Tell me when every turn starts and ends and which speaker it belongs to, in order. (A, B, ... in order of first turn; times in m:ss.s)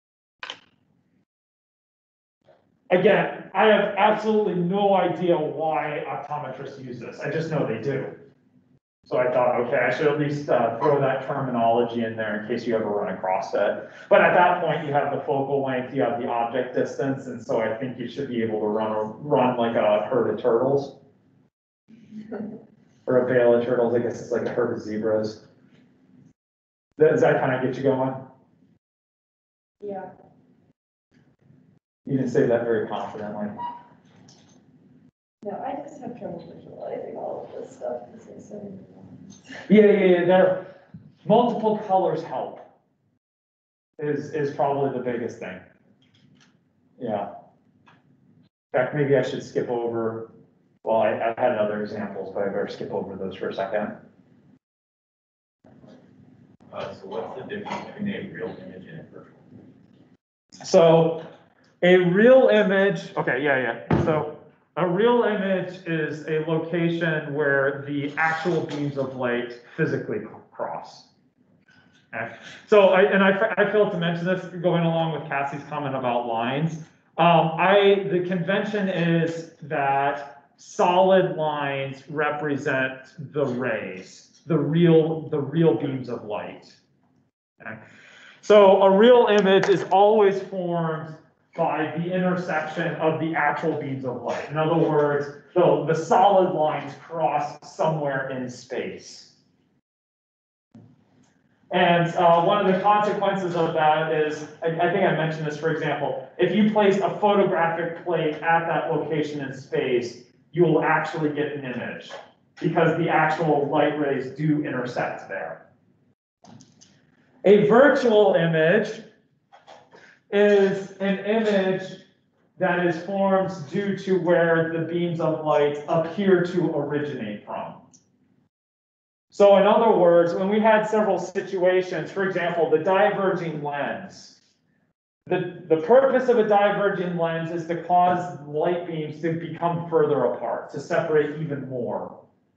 0:02.9-0:08.2 A
0:09.0-0:21.0 A
0:23.0-0:25.4 A
0:27.0-0:28.2 A
0:29.8-0:30.1 B
0:32.0-0:33.5 A
0:35.4-0:39.3 B
0:39.7-0:40.7 A
0:41.2-0:42.6 A
0:44.0-0:45.6 A
0:47.0-0:47.3 A
0:48.7-0:50.3 A
0:50.8-0:54.0 A
0:56.7-0:59.4 C
1:00.6-1:01.3 A
1:01.8-1:11.1 A
1:12.1-1:26.8 A
1:28.4-1:39.3 A
1:41.7-1:55.6 A
1:57.4-1:59.0 A
2:00.3-2:02.0 A
2:02.6-2:07.8 A
2:09.3-2:14.4 A
2:15.2-2:22.2 A